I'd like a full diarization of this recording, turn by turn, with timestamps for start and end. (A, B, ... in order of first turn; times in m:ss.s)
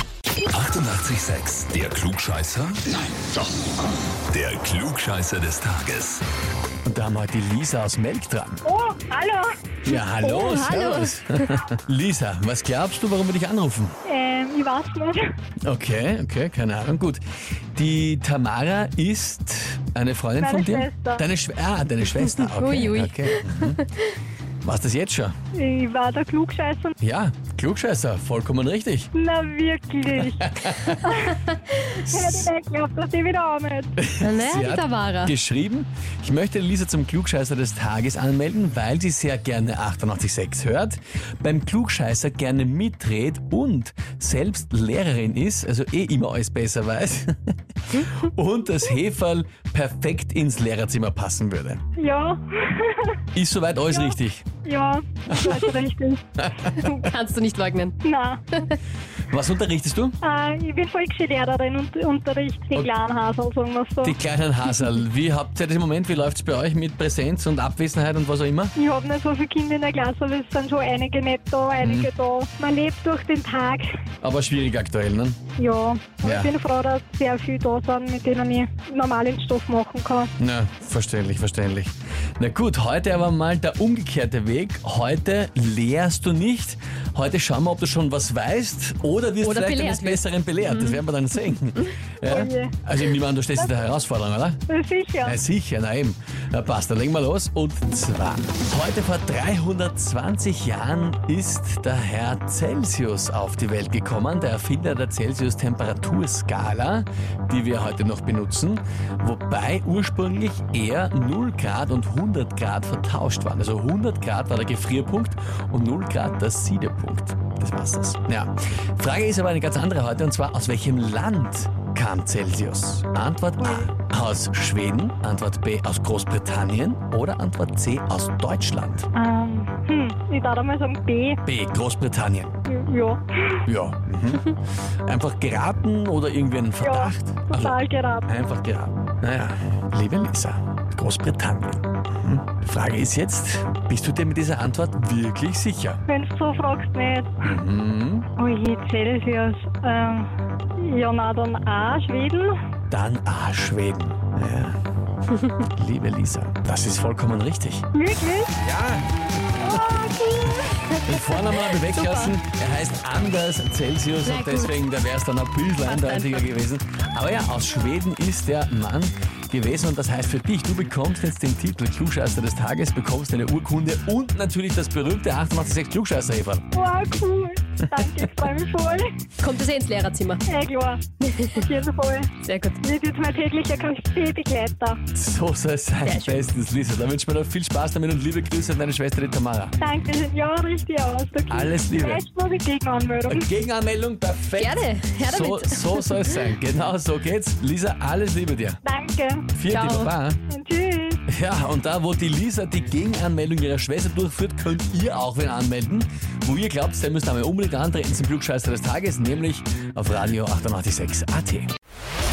0:00.5-0:03.0 A
0:04.3-0:06.2 A
0:06.8-0:08.6 B
0:08.6-0:09.6 C
0:09.8-0:14.0 B
0:09.9-0:11.6 D
0:14.0-0:15.3 C
0:15.6-0:17.2 B
0:17.7-0:23.8 B
0:20.4-0:21.2 C
0:22.2-0:23.9 D
0:24.6-0:25.4 B
0:25.5-0:26.9 C
0:27.0-0:29.1 B
0:29.1-0:30.4 C
0:30.2-0:31.2 B
0:31.0-0:33.9 C
0:32.0-0:32.5 B
0:34.0-0:51.8 B
0:34.2-0:35.3 D
0:52.0-0:53.2 C
0:53.3-0:54.4 B
0:53.9-0:56.2 C
0:55.3-0:55.6 B
0:56.4-0:56.8 B
0:56.8-0:57.9 D
0:58.0-0:58.4 C
0:59.3-1:00.2 B
1:00.2-1:04.2 C
1:04.0-1:08.7 B
1:08.8-1:13.9 C
1:11.8-1:12.1 B
1:14.2-1:15.4 B
1:15.6-1:20.3 C
1:16.2-1:16.5 B
1:20.4-1:34.6 B
1:29.4-1:31.0 D
1:32.2-1:32.8 C
1:34.7-1:35.4 C
1:35.2-2:09.1 B
2:03.6-2:03.9 C
2:09.1-2:11.4 C
2:11.4-2:12.5 B
2:12.6-2:13.6 C
2:13.6-2:26.0 B
2:16.8-2:18.3 C
2:26.1-2:27.5 C
2:27.4-2:28.3 B
2:28.4-2:32.6 C
2:32.9-2:34.8 B
2:35.6-2:37.9 B
2:37.9-2:38.6 C
2:38.6-2:40.0 B
2:39.6-2:40.7 C
2:40.9-2:42.4 D
2:41.0-2:56.7 B
2:44.2-2:44.8 D
2:45.8-2:46.4 D
2:56.7-2:59.1 C
2:57.9-2:58.3 B
2:59.4-3:00.4 D
3:00.4-3:05.0 C
3:01.2-3:01.6 D
3:02.4-3:02.8 D
3:05.1-3:09.8 B
3:06.0-3:06.4 D
3:09.8-3:13.5 C
3:11.5-3:12.2 B
3:13.3-3:18.8 B
3:14.6-3:16.5 D
3:18.8-3:19.5 C
3:19.5-3:20.4 B
3:19.7-3:20.1 D
3:20.5-3:21.2 C
3:21.3-3:31.7 B